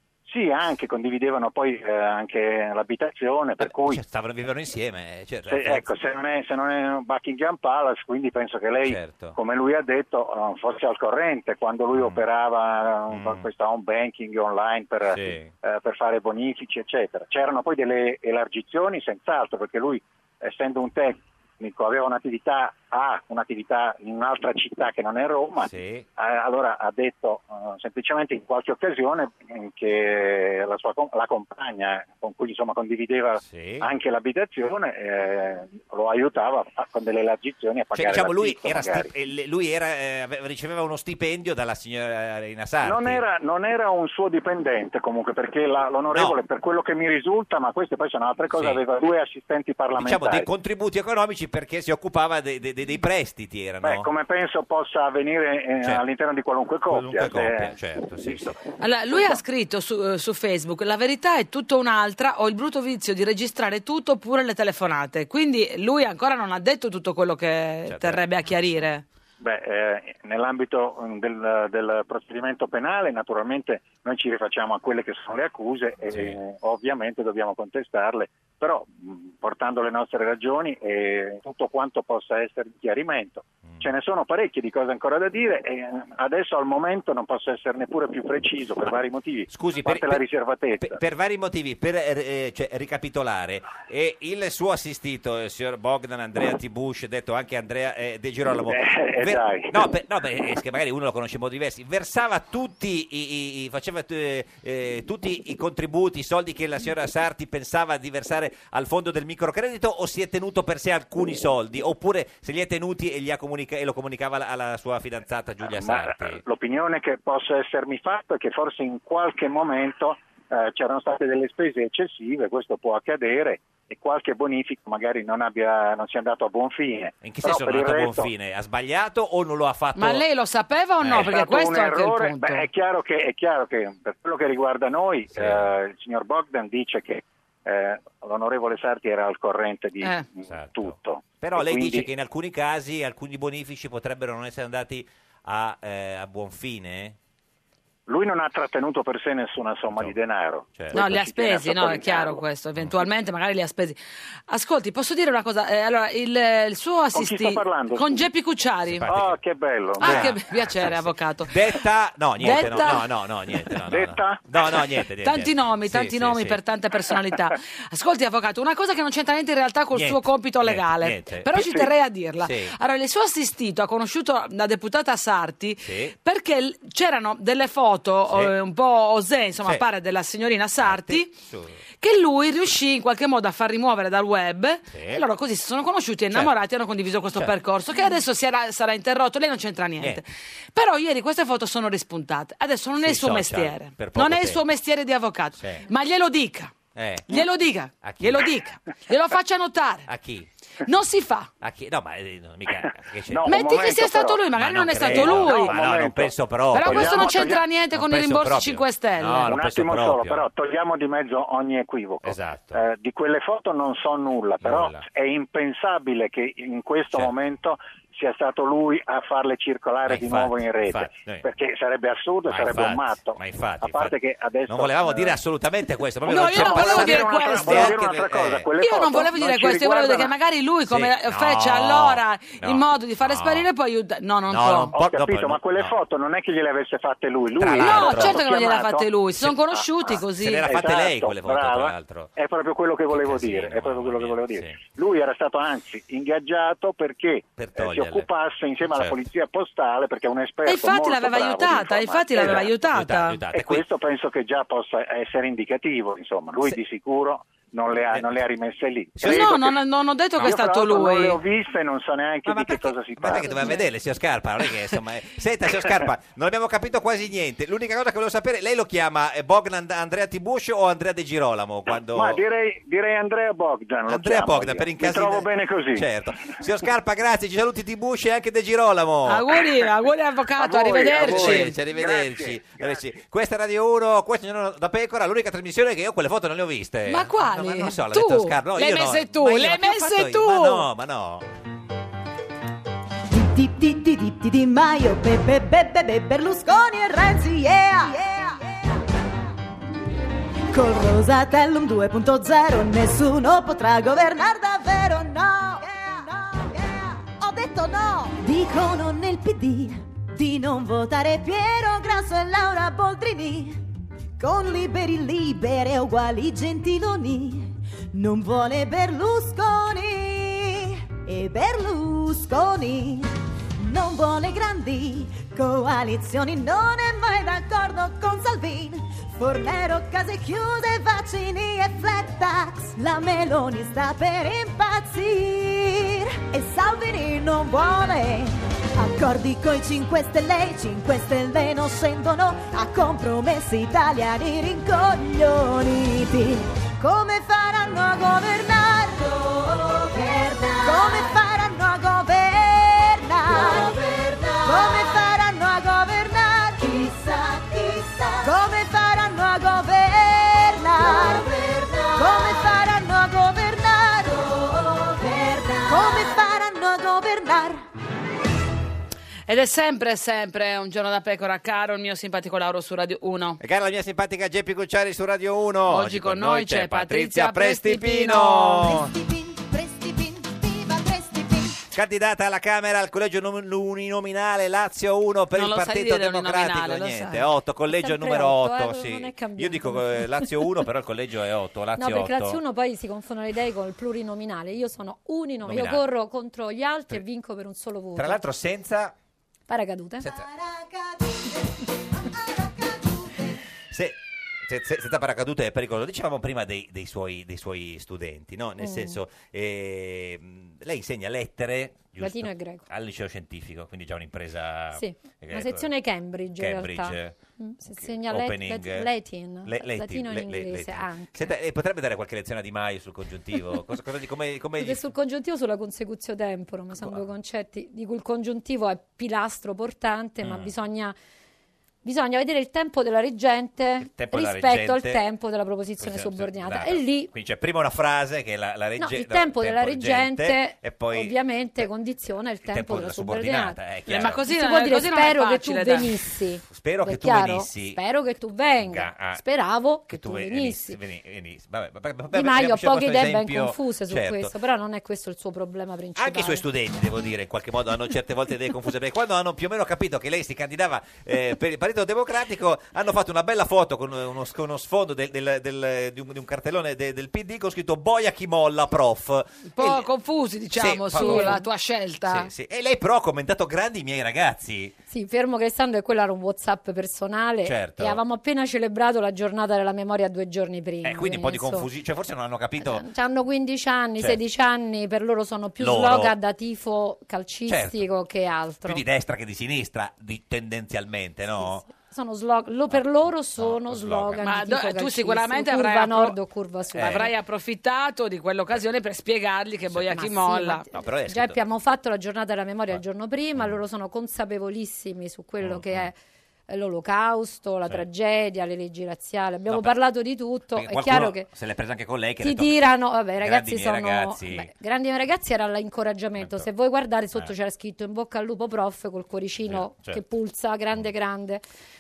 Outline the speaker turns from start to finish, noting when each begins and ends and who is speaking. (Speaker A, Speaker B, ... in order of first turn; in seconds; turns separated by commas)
Speaker A: 0.3-4.0, Speaker B: 3.6-5.9, Speaker A: 5.5-39.1, Speaker B: 8.8-9.4, Speaker B: 11.9-12.2, Speaker B: 13.1-13.5, Speaker B: 15.1-15.5, Speaker B: 25.6-26.1, Speaker B: 33.4-33.9, Speaker B: 38.0-43.2, Speaker A: 42.8-50.5, Speaker B: 46.1-46.4, Speaker B: 48.5-48.8, Speaker B: 50.0-54.1, Speaker A: 53.8-57.7, Speaker B: 56.9-58.6, Speaker A: 58.2-58.5, Speaker C: 58.8-69.0, Speaker B: 67.9-68.8, Speaker A: 69.4-91.0, Speaker B: 76.1-76.4, Speaker B: 83.7-83.9, Speaker B: 89.5-90.2, Speaker B: 90.8-116.4, Speaker A: 98.7-99.8, Speaker A: 115.8-128.3, Speaker B: 127.2-130.2, Speaker C: 129.9-132.7, Speaker B: 131.0-131.3, Speaker A: 131.1-142.1, Speaker B: 135.3-135.7, Speaker C: 140.0-140.3, Speaker B: 140.5-147.2, Speaker A: 148.1-152.4, Speaker B: 149.9-150.2, Speaker B: 150.8-151.0, Speaker C: 150.9-154.0, Speaker C: 154.5-159.1, Speaker A: 157.1-158.2, Speaker B: 158.9-159.4, Speaker A: 159.1-160.3, Speaker C: 160.0-161.8, Speaker B: 160.0-166.6, Speaker C: 162.4-163.1, Speaker A: 163.9-164.4, Speaker C: 165.2-181.3, Speaker B: 169.9-171.6, Speaker B: 172.4-172.7, Speaker B: 175.8-176.1, Speaker B: 180.8-181.8, Speaker C: 182.0-196.8, Speaker B: 184.9-185.2, Speaker B: 193.0-194.6, Speaker B: 195.6-195.8, Speaker B: 196.9-197.4, Speaker C: 197.3-200.1, Speaker B: 198.0-198.5, Speaker B: 200.1-200.5, Speaker C: 200.9-201.5, Speaker B: 201.6-203.5, Speaker A: 203.3-207.6, Speaker C: 203.5-205.7, Speaker B: 204.5-210.5, Speaker C: 206.7-209.5, Speaker A: 209.5-225.3, Speaker B: 212.2-212.8, Speaker B: 214.6-215.1, Speaker B: 220.1-221.5, Speaker B: 222.5-224.2, Speaker B: 224.7-228.7, Speaker C: 226.3-228.0, Speaker A: 226.3-230.3, Speaker C: 228.8-234.9, Speaker B: 230.9-233.7, Speaker B: 234.5-236.0, Speaker A: 234.9-239.1, Speaker B: 237.6-238.4, Speaker C: 237.8-240.7, Speaker B: 240.1-242.3, Speaker A: 240.7-252.7, Speaker B: 243.1-244.8, Speaker B: 247.6-248.3, Speaker C: 250.7-253.4, Speaker B: 252.4-253.8, Speaker A: 253.5-259.8, Speaker B: 258.1-258.4, Speaker B: 259.2-259.4, Speaker C: 259.2-261.4, Speaker A: 260.4-263.7, Speaker B: 262.5-272.4, Speaker A: 272.1-276.1, Speaker B: 274.1-279.6, Speaker C: 279.3-281.8, Speaker A: 280.6-283.0, Speaker B: 281.1-291.5, Speaker C: 287.1-290.9, Speaker D: 293.3-298.8, Speaker D: 300.7-313.8, Speaker D: 314.4-367.9, Speaker C: 369.5-373.6, Speaker B: 373.6-379.1, Speaker C: 375.9-378.9, Speaker D: 378.8-381.8, Speaker B: 381.9-392.6, Speaker C: 385.5-387.5, Speaker E: 387.9-390.8, Speaker E: 392.0-398.4, Speaker B: 395.6-396.0, Speaker B: 398.2-399.1, Speaker E: 399.7-400.3, Speaker D: 400.3-401.6, Speaker D: 402.3-403.6, Speaker B: 403.9-415.9, Speaker E: 408.8-409.2, Speaker E: 412.2-412.9, Speaker E: 414.9-421.5, Speaker B: 416.6-417.4, Speaker B: 417.9-419.1, Speaker B: 419.6-425.1, Speaker E: 424.8-431.2, Speaker B: 430.4-430.7, Speaker E: 432.0-437.3, Speaker B: 434.0-435.2, Speaker B: 436.0-441.9, Speaker E: 439.0-451.0, Speaker B: 442.6-444.4, Speaker C: 444.1-446.1, Speaker B: 446.7-448.0, Speaker B: 448.8-449.4, Speaker B: 450.1-454.5, Speaker E: 452.3-456.6, Speaker B: 456.2-470.1, Speaker C: 469.8-472.5, Speaker B: 470.7-471.6, Speaker E: 471.1-471.6, Speaker B: 472.3-474.9, Speaker E: 475.1-481.9, Speaker B: 477.6-478.2, Speaker B: 481.0-483.1, Speaker E: 482.8-489.0, Speaker B: 485.8-486.4, Speaker B: 487.7-488.1, Speaker B: 488.9-491.9, Speaker E: 491.6-497.3, Speaker B: 492.9-494.4, Speaker C: 494.4-496.4, Speaker B: 496.9-497.3, Speaker C: 497.0-500.8, Speaker E: 500.1-506.2, Speaker B: 500.9-501.6, Speaker B: 505.6-506.1, Speaker E: 506.7-511.5, Speaker B: 509.7-510.0, Speaker B: 510.7-514.7, Speaker E: 512.4-521.6, Speaker B: 516.4-516.7, Speaker B: 519.6-520.2